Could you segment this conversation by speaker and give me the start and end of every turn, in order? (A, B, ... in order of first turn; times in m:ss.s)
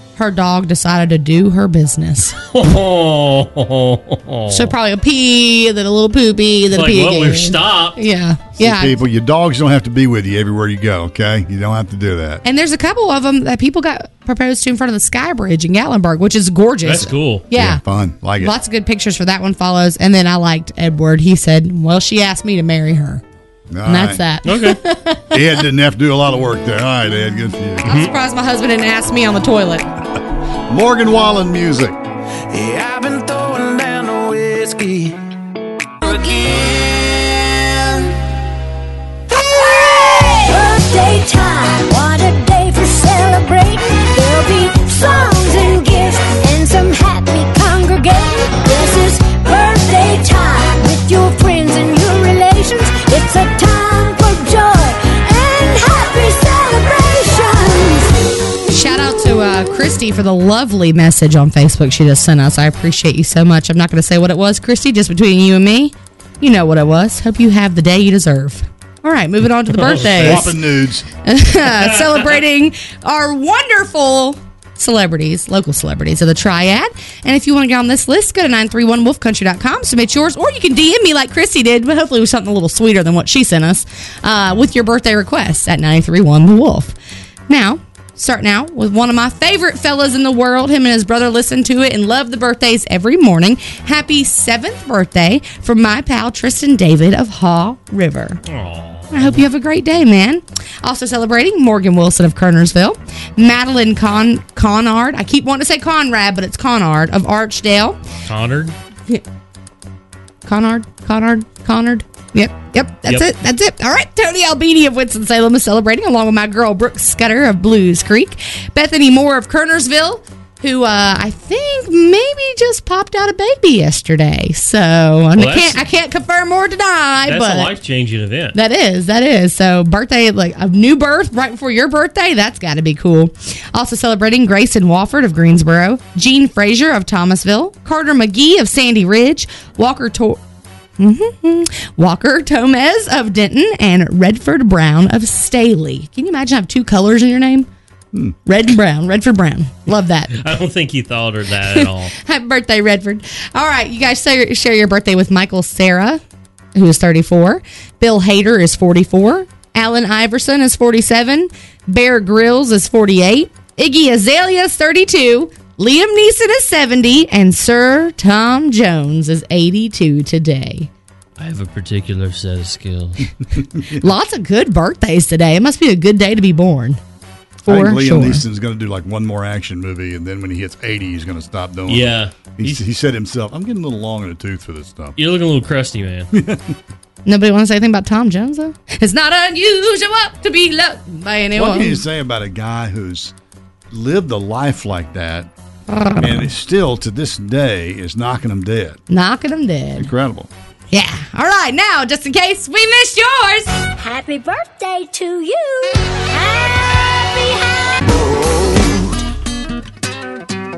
0:00.2-0:02.4 A
0:02.5-0:04.8 B
0:04.5-0:09.0 A
0:06.7-0:08.0 B
0:08.6-0:12.4 C
0:12.4-0:17.8 A
0:16.8-0:17.5 B
0:17.5-0:18.6 C
0:18.4-0:23.2 A
0:23.7-0:24.2 C
0:23.9-0:25.4 A
0:24.4-0:24.8 B
0:25.3-0:27.9 C
0:27.8-0:29.9 A
0:30.7-0:32.0 C
0:32.5-0:35.2 D
0:36.0-0:36.3 E
0:36.4-0:38.0 D
0:39.3-0:58.1 E
0:58.7-1:10.6 A
1:09.8-1:10.5 B
1:10.0-1:11.1 C
1:11.2-1:27.0 A
1:11.8-1:12.2 B
1:27.5-1:38.4 A
1:38.5-1:39.4 B
1:39.1-1:48.0 A
1:48.3-1:48.8 B
1:50.4-2:07.7 A
2:05.4-2:05.8 B
2:07.3-2:08.6 B
2:08.5-2:20.4 A
2:21.0-2:27.7 A
2:28.5-2:30.4 A
2:30.3-2:32.2 B
2:31.8-2:36.2 A
2:36.8-2:50.9 A
2:51.4-2:53.3 B
2:53.5-2:54.1 C
2:54.0-2:57.0 A
2:57.7-2:58.4 A
2:57.7-3:05.2 C
3:01.9-3:02.8 B
3:05.2-3:06.3 B
3:06.3-3:06.8 C
3:07.3-3:12.0 A
3:11.6-3:13.3 C
3:13.9-3:15.5 C
3:15.9-3:16.5 A
3:16.2-3:19.0 C
3:19.1-3:20.1 A
3:20.0-3:20.5 C
3:20.9-3:23.9 A
3:24.0-3:28.0 E